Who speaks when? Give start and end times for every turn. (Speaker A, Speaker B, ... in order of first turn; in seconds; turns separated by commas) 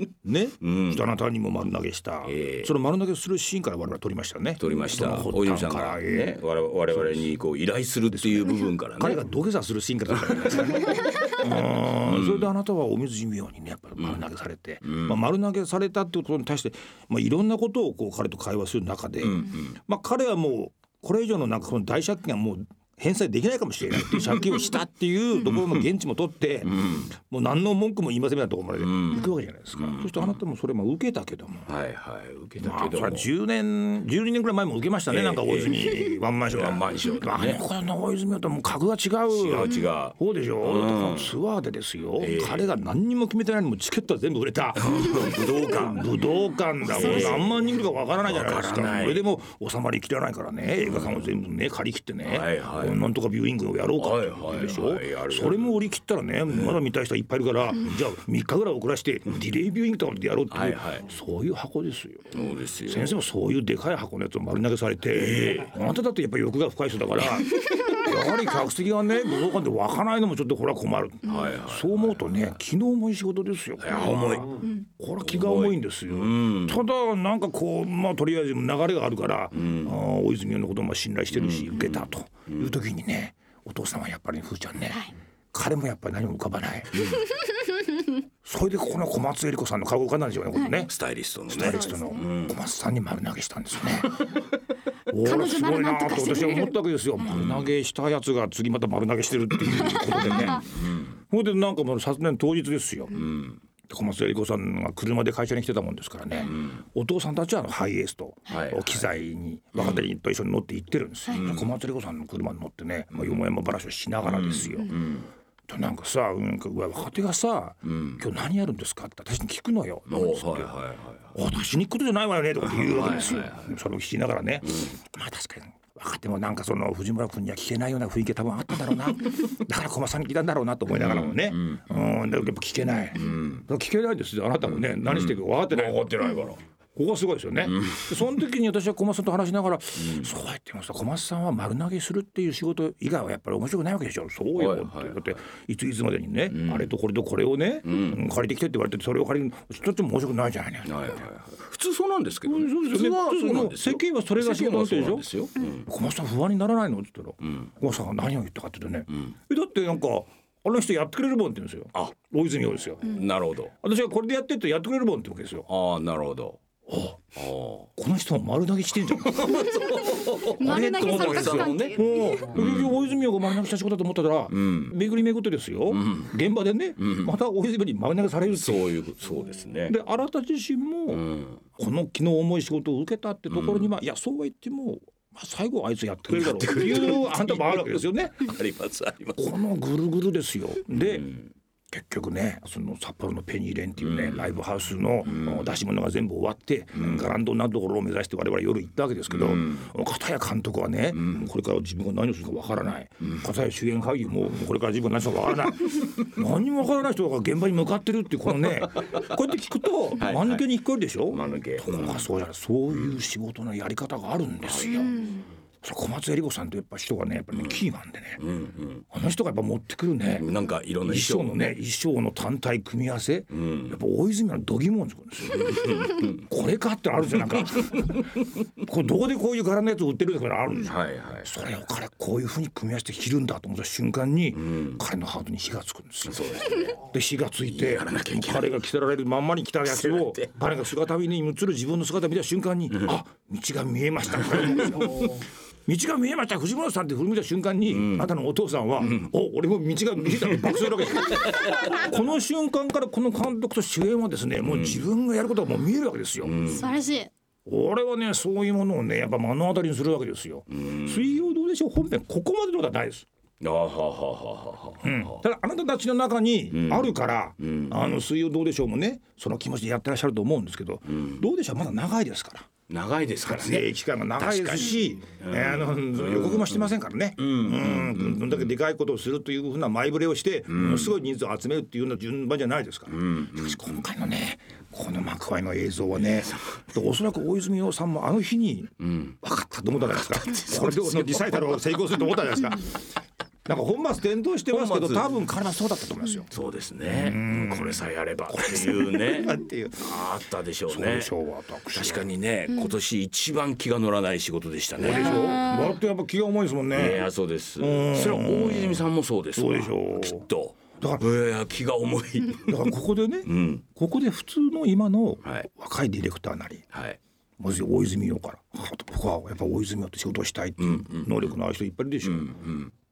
Speaker A: 0.2-6.4, Speaker B: 0.6-1.0, Speaker B: 2.2-2.7, Speaker B: 4.6-9.2, Speaker A: 6.9-7.3, Speaker A: 8.1-31.7, Speaker B: 10.1-12.5, Speaker B: 14.8-15.2, Speaker B: 19.2-19.7, Speaker B: 26.6-27.1, Speaker B: 28.8-30.4, Speaker B: 31.7-33.3, Speaker A: 32.6-87.1, Speaker B: 35.1-37.6, Speaker B: 39.3-41.3, Speaker B: 42.2-42.7, Speaker B: 44.8-46.1, Speaker B: 46.8-47.6, Speaker B: 48.2-49.3, Speaker B: 50.8-51.2, Speaker B: 52.2-53.0, Speaker B: 54.0-55.8, Speaker B: 56.5-56.8, Speaker B: 60.5-61.0, Speaker B: 62.3-63.2, Speaker B: 65.1-65.8, Speaker B: 67.8-68.1, Speaker B: 71.2-72.5, Speaker B: 73.8-74.6, Speaker B: 75.2-76.8, Speaker B: 79.5-79.9, Speaker B: 81.3-82.7, Speaker B: 87.0-87.2, Speaker A: 88.4-90.9, Speaker B: 90.9-92.5, Speaker A: 91.5-94.3, Speaker C: 91.6-92.2, Speaker A: 95.1-103.2, Speaker C: 95.2-96.8, Speaker B: 97.3-97.7, Speaker B: 100.2-101.1, Speaker B: 103.1-103.6, Speaker A: 103.9-115.0, Speaker B: 106.5-106.8, Speaker B: 108.5-109.1, Speaker B: 109.8-110.0, Speaker B: 111.3-111.7, Speaker B: 113.1-113.4, Speaker B: 114.2-115.3, Speaker A: 115.7-120.7, Speaker B: 117.8-118.2, Speaker B: 120.1-121.3, Speaker A: 121.3-136.1, Speaker B: 122.7-123.7, Speaker B: 130.9-131.8, Speaker B: 133.2-133.6, Speaker B: 135.0-136.6, Speaker A: 136.9-151.3, Speaker B: 137.7-138.1, Speaker B: 140.0-140.3, Speaker B: 144.5-145.2, Speaker B: 146.5-146.9, Speaker B: 147.8-148.2, Speaker B: 150.8-155.8, Speaker A: 152.4-163.2, Speaker B: 157.4-157.7, Speaker B: 163.0-163.7, Speaker A: 163.7-165.7, Speaker B: 165.7-166.6, Speaker A: 166.9-167.2, Speaker B: 167.3-167.9, Speaker A: 168.0-169.9, Speaker B: 169.1-172.9, Speaker A: 170.6-178.9, Speaker C: 170.6-172.6, Speaker B: 174.5-174.9, Speaker B: 175.9-176.3, Speaker B: 177.0-177.3, Speaker B: 178.5-180.0, Speaker A: 179.9-188.5, Speaker B: 181.1-181.6, Speaker B: 183.5-183.9, Speaker B: 186.3-189.4, Speaker A: 189.3-191.3, Speaker B: 190.9-191.5, Speaker A: 191.9-215.1, Speaker B: 194.0-194.5, Speaker B: 195.3-195.7, Speaker B: 196.9-197.2, Speaker B: 199.3-199.8, Speaker B: 210.2-210.6, Speaker B: 211.3-212.2, Speaker B: 214.6-215.2, Speaker C: 214.9-215.4, Speaker A: 215.8-218.4, Speaker B: 218.4-219.0, Speaker A: 219.1-220.5, Speaker B: 220.3-221.7, Speaker A: 221.0-256.7, Speaker B: 223.5-224.0, Speaker B: 225.5-226.4, Speaker B: 227.8-228.2, Speaker B: 230.8-231.5, Speaker B: 234.6-235.0, Speaker B: 236.2-237.0, Speaker B: 237.7-238.8, Speaker B: 239.9-240.5, Speaker B: 247.9-248.3, Speaker B: 251.3-251.9, Speaker B: 254.6-255.1, Speaker B: 256.4-256.8, Speaker C: 256.8-257.3, Speaker A: 257.6-263.2, Speaker B: 260.7-261.3, Speaker B: 263.6-265.4, Speaker A: 265.0-272.7, Speaker B: 266.7-268.0, Speaker B: 271.1-271.4, Speaker B: 272.9-278.7, Speaker A: 273.4-293.0, Speaker B: 280.7-281.1, Speaker B: 283.1-283.9, Speaker B: 289.0-289.3, Speaker B: 290.1-291.8, Speaker A: 293.6-296.5, Speaker B: 294.7-295.4, Speaker B: 296.5-301.3, Speaker A: 297.1-300.2, Speaker A: 300.9-302.3, Speaker B: 301.9-305.7, Speaker A: 305.0-307.3, Speaker C: 305.1-305.9, Speaker B: 306.9-312.9, Speaker A: 307.8-309.0, Speaker A: 309.6-311.2, Speaker A: 312.6-316.8, Speaker B: 313.4-313.8, Speaker B: 316.9-317.2, Speaker A: 317.6-322.6, Speaker B: 320.8-321.5, Speaker B: 322.2-322.9